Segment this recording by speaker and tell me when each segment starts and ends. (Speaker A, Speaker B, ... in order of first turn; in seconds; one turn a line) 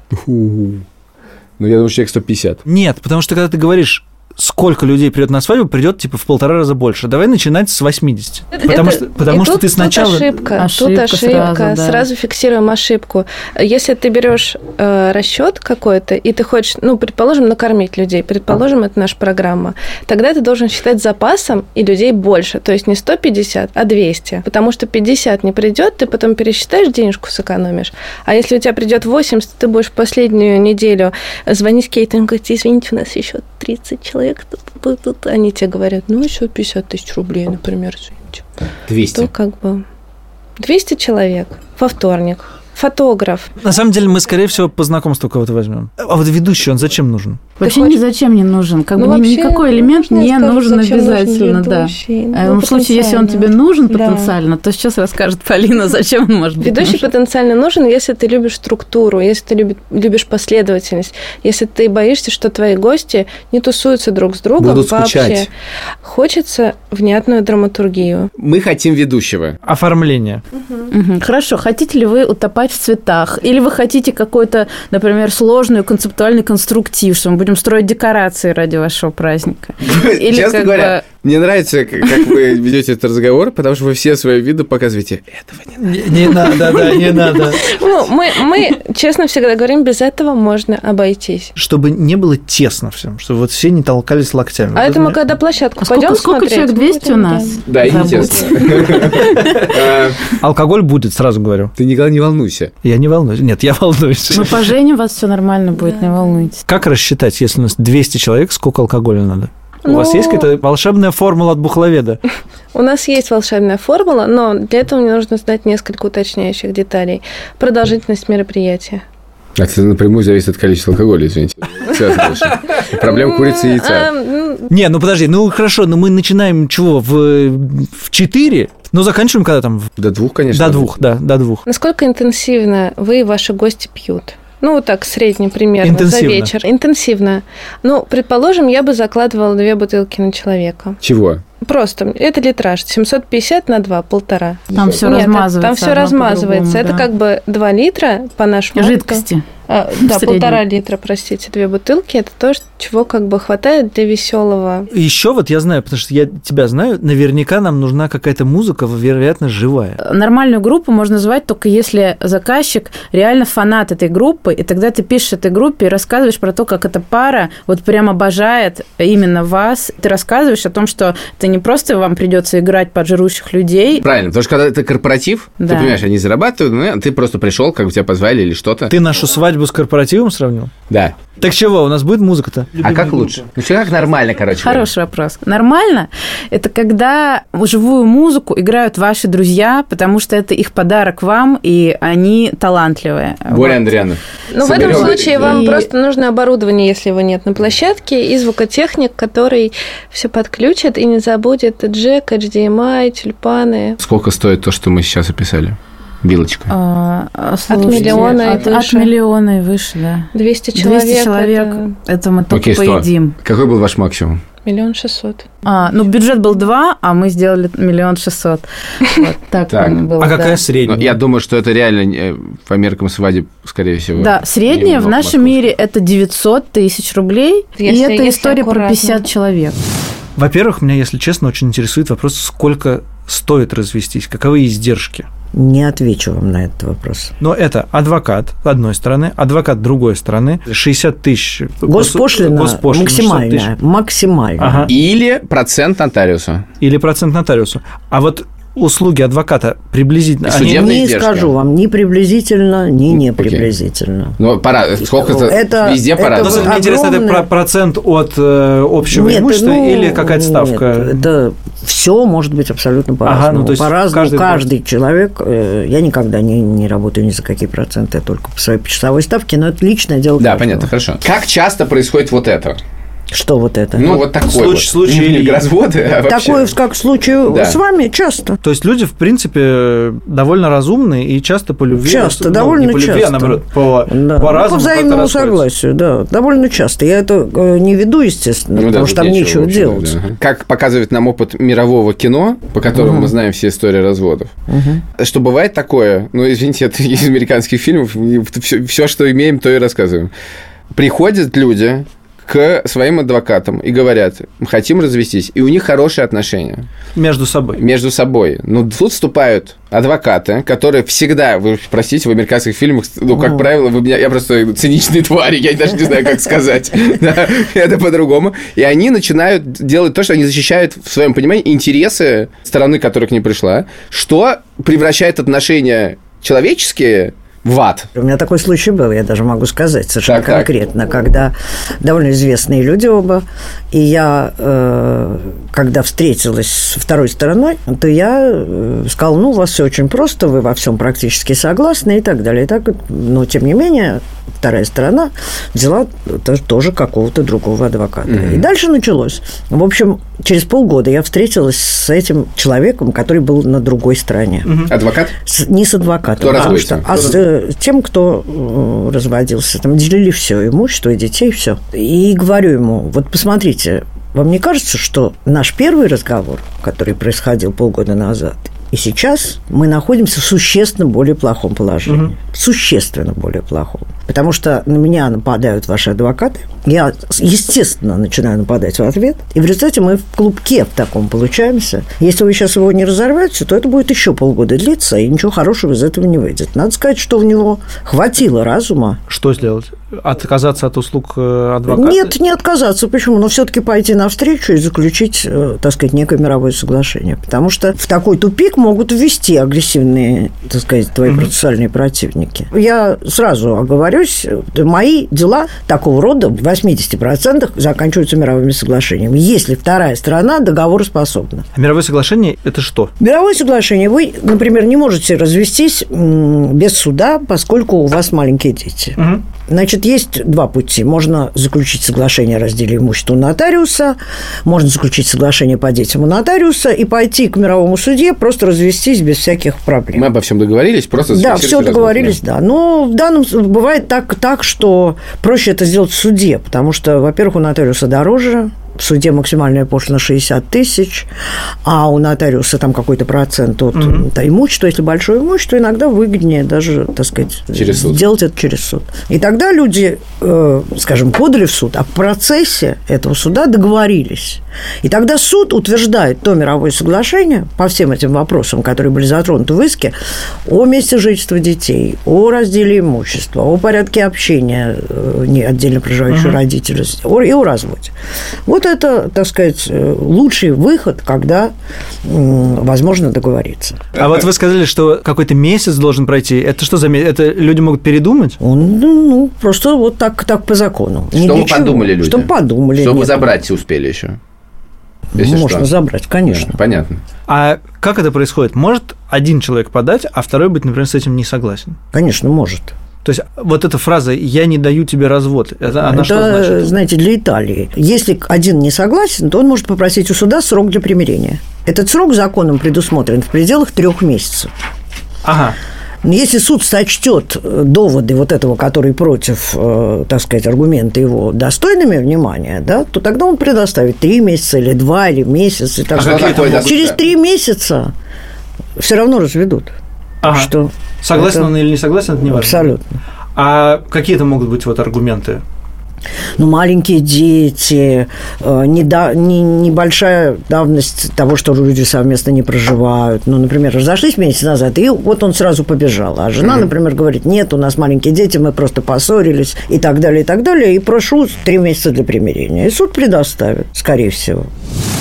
Speaker A: 0.1-0.8
Speaker A: 1.6-2.6
Speaker B: 2.7-10.4
Speaker C: 8.6-38.5
Speaker D: 10.6-12.1
Speaker A: 38.9-39.3
Speaker C: 39.1-39.8
Speaker C: 40.6-43.5
Speaker B: 43.6-47.4
Speaker D: 47.6-57.0
Speaker C: 47.6-48.0
Speaker C: 49.0-54.3
Speaker C: 56.6-65.5
Speaker A: 64.6-65.5
Speaker C: 66.0-68.3
Speaker A: 68.4-69.6
Speaker B: 69.7-70.4
Speaker C: 70.6-70.9
Speaker D: 70.9-81.0
Speaker A: 79.8-86.3
Speaker B: 85.8-87.7
Speaker C: 86.6-91.5
Speaker B: 91.5-95.2
Speaker C: 94.8-98.8
Speaker D: 95.8-99.7
Speaker A: 97.7-100.3
Speaker B: 99.4-99.7
Speaker B: 100.3-101.7
Speaker A: 101.8-102.7
Speaker B: 102.8-104.7
Speaker D: 104.3-106.6
Speaker C: 105.8-106.5
Speaker B: 106.7-112.2
Speaker C: 109.8-110.5
Speaker C: 112.7-119.0
Speaker A: 119.6-124.1
Speaker C: 122.8-124.7
Speaker B: 124.7-129.9
Speaker A: 130.0-130.9
Speaker B: 130.5-131.6
Speaker C: 131.7-141.0
Speaker B: 135.8-136.5
Speaker A: 141.0-141.4
Speaker C: 141.6-154.9
Speaker D: 144.7-147.1
Speaker D: 148.8-149.5
Speaker D: 150.0-150.6
Speaker B: 154.9-160.0
Speaker D: 160.0-174.1
Speaker A: 174.0-178.9
Speaker D: 175.6-176.0
Speaker B: 178.9-180.7
Speaker A: 180.9-181.2
Speaker B: 181.3-183.4
Speaker A: 182.8-184.9
Speaker D: 184.6-193.8
Speaker A: 193.5-195.6
Speaker C: 194.5-204.0
Speaker D: 194.7-195.9
Speaker A: 204.0-206.7
Speaker D: 206.7-213.4
Speaker C: 207.7-209.1
Speaker A: 207.9-208.7
Speaker C: 210.3-211.9
Speaker A: 212.5-214.4
Speaker C: 214.7-215.5
Speaker D: 215.7-220.6
Speaker A: 219.7-220.0
Speaker B: 220.2-221.1
Speaker A: 220.8-225.7
Speaker D: 224.2-229.8
Speaker C: 227.8-229.2
Speaker B: 230.4-235.3
Speaker E: 235.5-237.3
Speaker B: 237.4-243.7
Speaker E: 241.9-244.9
Speaker B: 244.6-244.9
Speaker A: 244.9-246.7
Speaker B: 246.8-250.9
Speaker A: 250.4-251.5
Speaker E: 250.5-254.4
Speaker A: 253.1-253.7
Speaker A: 254.4-256.8
Speaker E: 255.0-257.5
Speaker B: 256.4-261.2
Speaker E: 259.1-270.9
Speaker B: 263.2-264.6
Speaker A: 270.4-272.8
Speaker E: 273.3-274.2
Speaker A: 273.9-276.7
Speaker B: 274.1-275.7
Speaker E: 276.3-278.6
Speaker A: 277.5-277.8
Speaker B: 278.6-285.6
Speaker E: 282.0-290.2
Speaker A: 288.8-294.5
Speaker E: 292.9-293.4
Speaker E: 294.7-295.0
Speaker A: 295.2-300.3
Speaker A: 300.9-306.9
Speaker B: 307.1-307.8
Speaker A: 307.8-328.1
Speaker E: 313.3-313.6
Speaker E: 328.2-389.2
Speaker A: 330.3-330.7
Speaker A: 348.3-348.6
Speaker B: 354.7-354.9
Speaker A: 354.9-355.3
Speaker A: 356.4-357.3
Speaker B: 389.3-392.3
Speaker E: 391.9-411.7
Speaker B: 411.8-413.1
Speaker E: 413.2-430.3
Speaker A: 430.2-432.4
Speaker E: 431.3-441.3
Speaker E: 441.8-460.1
Speaker B: 444.0-444.2
Speaker A: 447.7-448.2
Speaker E: 460.7-468.1
Speaker B: 466.3-466.6
Speaker E: 468.7-471.7
Speaker E: 472.2-474.1
Speaker B: 474.2-478.6
Speaker E: 478.6-483.5
Speaker A: 481.3-484.4
Speaker E: 485.3-486.8
Speaker A: 485.4-485.9
Speaker A: 486.5-487.2
Speaker B: 487.5-492.0
Speaker E: 492.1-492.9
Speaker B: 493.2-496.9
Speaker E: 496.1-504.7
Speaker B: 505.4-505.8
Speaker E: 506.2-518.1
Speaker A: 516.1-517.2
Speaker B: 516.2-516.9
Speaker E: 519.0-519.9
Speaker B: 520.4-520.7
Speaker E: 520.4-521.7
Speaker B: 521.2-522.9
Speaker E: 522.5-523.2
Speaker B: 523.5-525.6
Speaker E: 526.6-544.7